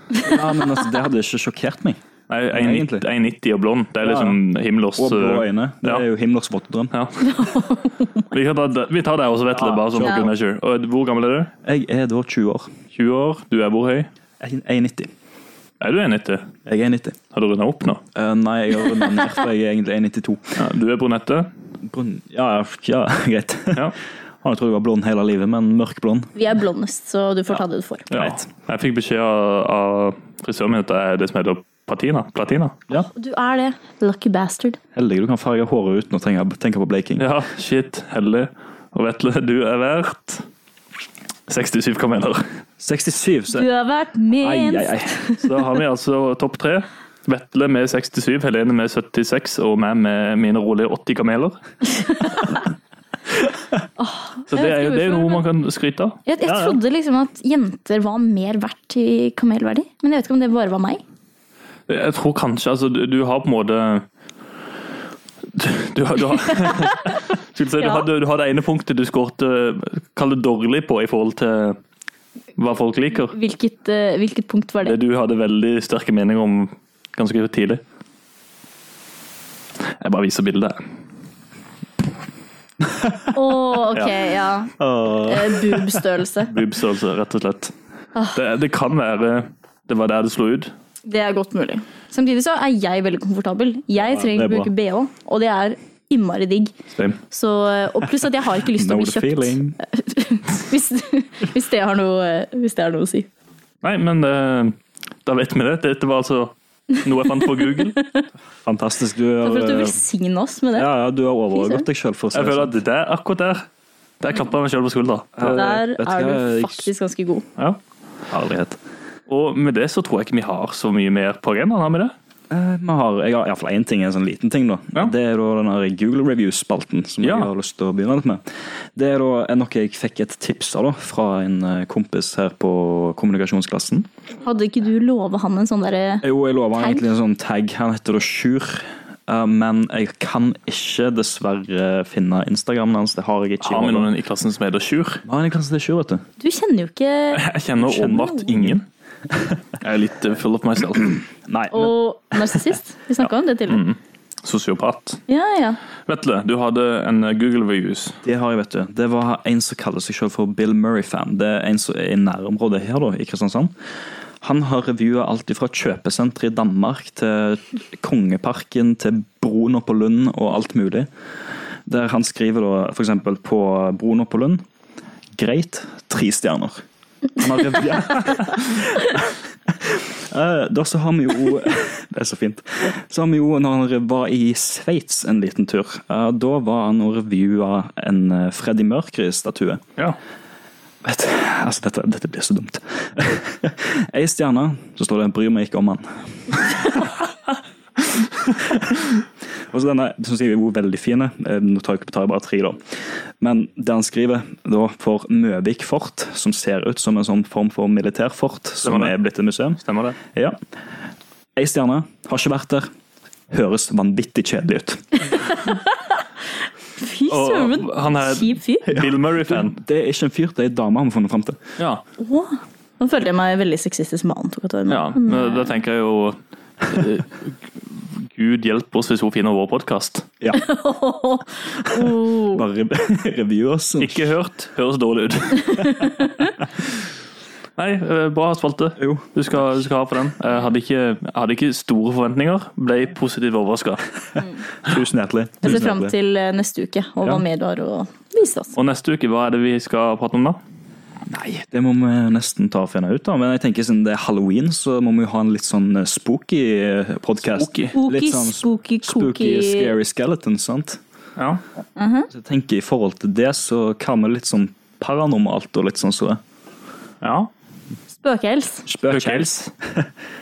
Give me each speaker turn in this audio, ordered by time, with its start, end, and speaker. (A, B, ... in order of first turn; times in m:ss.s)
0:00.2-0:02.0 A
0:02.3-0:06.0 B
0:02.5-0:03.0 A
0:04.0-0:04.4 A
0:05.0-0:06.9 A
0:06.9-0:07.3 B
0:07.2-0:08.3 C
0:08.3-0:11.5 B
0:09.5-0:10.3 A
0:11.6-0:12.7 A
0:12.9-0:14.1 B
0:14.4-0:15.1 A
0:15.8-0:16.5 B
0:16.6-0:17.2 A
0:17.3-0:18.0 B
0:18.1-0:20.6 A
0:20.6-0:21.5 B
0:21.8-0:23.9 A
0:24.4-0:26.3 A
0:26.4-0:28.1 C
0:28.1-0:32.8 B
0:28.1-0:28.5 A
0:33.0-0:34.8 C
0:34.9-0:37.2 A
0:37.2-0:40.4 B
0:41.5-0:42.4 B
0:42.8-0:43.6 A
0:43.5-0:45.6 C
0:44.4-0:45.2 A
0:45.4-0:51.6 B
0:52.0-0:52.5 C
0:54.0-0:55.4 C
0:54.5-0:56.2 B
0:56.2-1:01.0 C
0:56.4-0:56.8 A
1:01.9-1:04.0 B
1:05.5-1:11.8 B
1:06.9-1:07.2 C
1:07.8-1:08.1 C
1:12.6-1:13.3 B
1:13.3-1:15.0 C
1:14.8-1:17.8 B
1:19.8-1:20.8 B
1:23.3-1:26.5 C
1:24.8-1:26.0 A
1:26.4-1:27.7 B
1:28.1-1:28.4 C
1:28.3-1:30.7 B
1:31.0-1:36.7 C
1:34.2-1:34.7 A
1:36.9-1:37.2 B
1:37.3-1:43.3 C
1:38.6-1:39.8 A
1:43.8-1:48.0 B
1:46.9-1:48.2 C
1:48.6-1:50.0 A
1:49.4-1:50.9 C
1:50.7-1:52.8 A
1:51.5-1:51.9 C
1:52.3-1:53.6 B
1:54.2-1:55.7 B
1:55.4-1:56.9 A
1:55.5-1:57.5 C
1:58.3-1:58.8 A
1:59.3-2:02.1 B
2:02.5-2:08.4 A
2:07.2-2:07.5 B
2:09.0-2:14.1 A
2:14.4-2:16.2 C
2:16.2-2:24.1 A
2:16.8-2:17.0 C
2:23.6-2:25.2 B
2:25.2-2:26.2 A
2:26.4-2:27.5 C
2:27.3-2:28.9 B
2:27.8-2:28.8 A
2:28.0-2:28.5 C
2:29.8-2:31.2 B
2:31.5-2:32.7 A
2:31.7-2:33.8 C
2:33.7-2:35.2 B
2:35.3-2:35.8 C
2:36.0-2:38.2 B
2:38.2-2:43.7 A
2:44.4-2:51.1 A
2:51.9-2:54.6 A
2:55.3-2:56.8 A
2:57.4-3:09.8 A
3:11.0-3:17.0 A
3:18.4-3:19.1 A
3:19.7-3:30.6 A
3:28.8-3:29.2 B
3:29.8-3:30.2 B
3:31.6-3:32.9 A
3:33.5-3:35.1 A
3:35.5-3:36.2 C
3:37.0-3:38.9 C
3:37.3-3:39.8 B
3:38.9-3:41.6 A
3:41.8-3:42.0 B
3:42.2-3:45.7 C
3:44.9-3:50.3 B
3:50.5-3:52.6 C
3:52.5-3:54.3 A
3:54.0-3:56.1 B
3:55.7-3:56.1 C
3:57.8-4:04.0 B
3:59.0-3:59.3 A
4:04.8-4:06.1 A
4:05.6-4:08.7 C
4:08.7-4:10.6 B
4:11.3-4:21.0 A
4:17.5-4:18.0 B
4:17.9-4:19.9 C
4:21.4-4:21.6 B
4:22.0-4:22.3 C
4:22.3-4:26.4 A
4:27.2-4:27.5 B
4:28.2-4:28.9 C
4:28.9-4:30.1 A
4:29.1-4:29.5 B